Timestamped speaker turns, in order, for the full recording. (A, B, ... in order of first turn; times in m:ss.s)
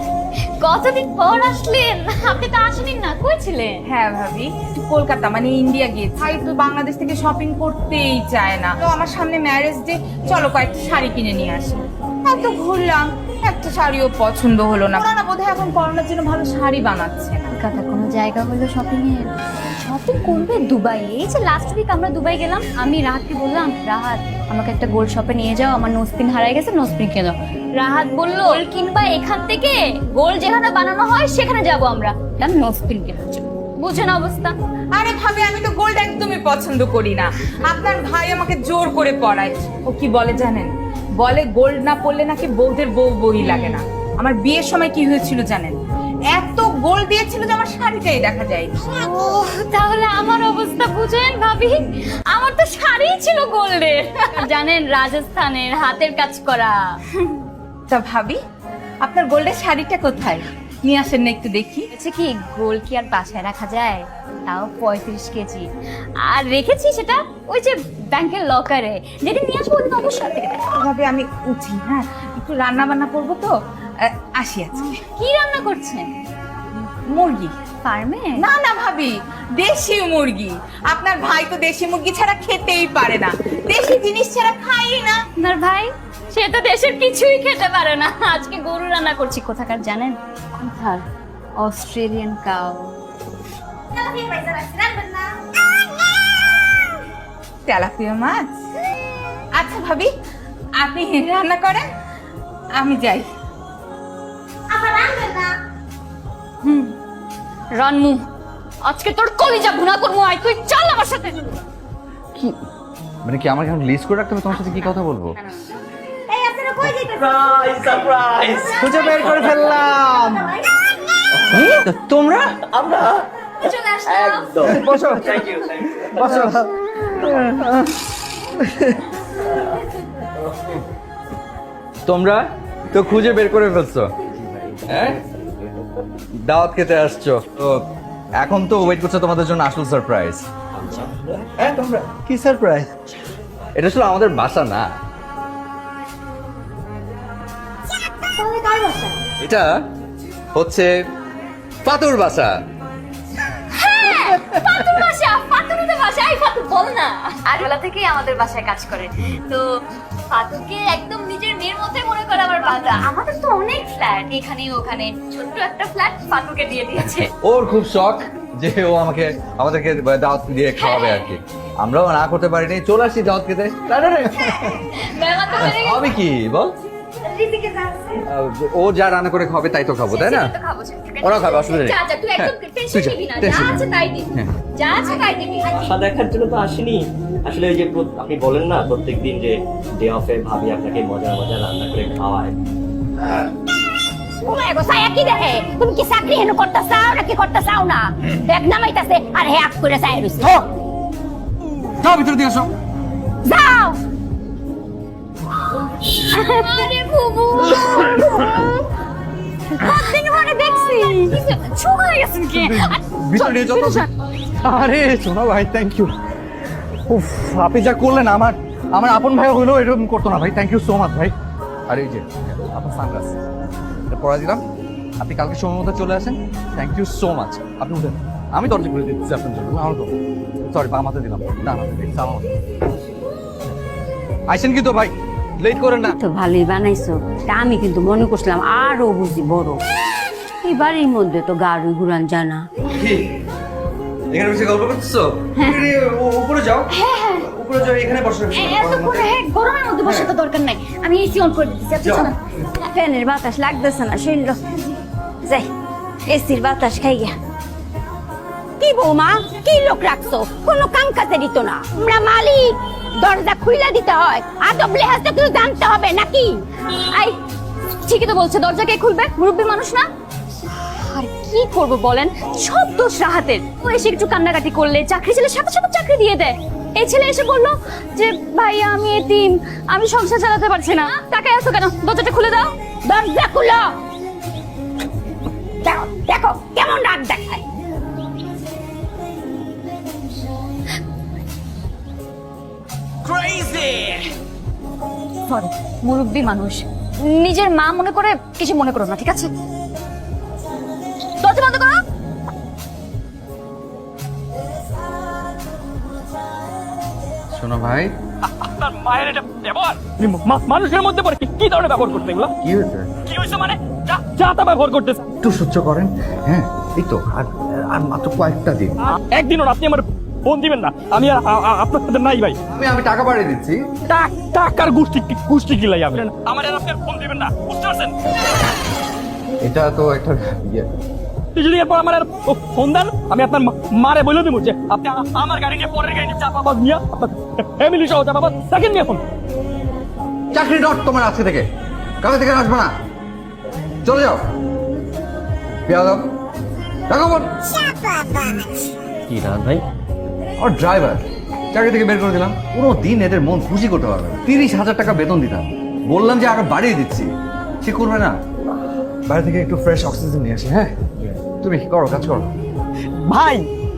0:00.6-0:03.8 A
0:03.8-0:17.5 B
0:17.5-0:34.6 A
0:35.0-0:45.8 B
0:43.4-0:43.8 A
0:46.3-0:48.7 B
0:48.9-0:57.0 A
0:57.9-0:58.4 B
0:59.0-1:01.9 B
1:01.9-1:05.7 A
1:06.2-1:10.7 A
1:10.8-1:13.5 B
1:14.0-1:15.0 B
1:14.7-1:16.1 A
1:17.1-1:17.5 B
1:17.8-1:18.4 A
1:18.4-1:25.2 B
1:25.4-1:31.0 A
1:31.6-1:32.9 A
1:34.0-1:35.2 A
1:37.7-1:38.6 B
1:39.5-1:40.1 B
1:40.8-1:41.8 B
1:42.8-1:43.2 B
1:44.7-1:45.5 A
1:46.6-1:46.9 A
1:47.7-1:48.2 A
1:48.8-1:51.4 A
1:53.2-1:55.4 C
1:56.4-1:57.4 A
1:57.1-1:59.7 D
1:58.7-2:00.3 E
1:59.1-1:59.4 C
2:01.5-2:02.6 C
2:02.7-2:03.3 D
2:03.6-2:04.7 A
2:04.0-2:06.3 D
2:04.6-2:05.5 C
2:06.1-2:06.7 C
2:07.2-2:07.9 C
2:08.6-2:09.0 C
2:12.1-2:14.1 C
2:14.6-2:15.7 D
2:14.9-2:15.2 C
2:16.5-2:17.8 C
2:18.4-2:20.4 C
2:20.8-2:21.5 D
2:21.6-2:22.9 C
2:23.8-2:24.9 C
2:28.4-2:29.2 A
2:29.4-2:29.7 C
2:30.6-2:30.9 C
2:31.8-2:32.5 C
2:33.7-2:39.6 A
2:40.3-2:47.3 A
2:47.4-2:55.0 C
2:50.8-2:51.2 A
2:54.6-2:56.1 A
2:55.5-2:56.7 C
2:57.3-2:58.2 A
2:58.3-3:00.5 C
3:00.1-3:05.8 A
3:01.2-3:04.5 C
3:05.7-3:12.6 D
3:14.4-3:20.5 F
3:22.0-3:22.7 C
3:23.5-3:24.0 F
3:26.2-3:28.8 A
3:29.8-3:34.1 A
3:31.3-3:31.5 C
3:32.4-3:34.1 C
3:34.6-3:36.1 C
3:37.1-3:41.3 C
3:41.9-3:43.4 C
3:44.1-3:44.6 C
3:45.2-3:50.1 C
3:50.6-3:52.5 C
3:54.5-3:56.2 C
3:56.2-3:59.8 F
4:00.6-4:02.6 F
4:02.9-4:03.2 C
4:04.3-4:09.3 C
4:06.9-4:07.5 A
4:08.5-4:14.8 A
4:10.0-4:10.3 C
4:12.0-4:12.3 C
4:13.0-4:14.5 F
4:16.3-4:17.4 A
4:18.8-4:26.6 F
4:21.9-4:22.4 A
4:28.0-4:30.1 A
4:31.0-4:42.7 A
4:43.0-4:43.9 F
4:45.8-4:47.6 F
4:53.3-4:54.1 A
4:55.5-4:59.5 A
5:01.4-5:02.0 A
5:07.5-5:08.1 C
5:08.4-5:12.5 G
5:12.6-5:13.1 C
5:13.3-5:15.2 G
5:15.4-5:19.1 C
5:19.0-5:22.6 G
5:22.7-5:23.8 C
5:24.1-5:28.2 G
5:29.6-5:30.9 C
5:31.6-5:39.2 G
5:40.5-5:41.7 C
5:42.2-5:42.9 C
5:44.0-5:44.4 C
5:45.9-5:46.3 C
5:47.1-5:47.5 C
5:50.6-5:57.3 C
5:57.8-5:58.4 C
5:59.3-6:02.5 C
6:03.2-6:03.6 E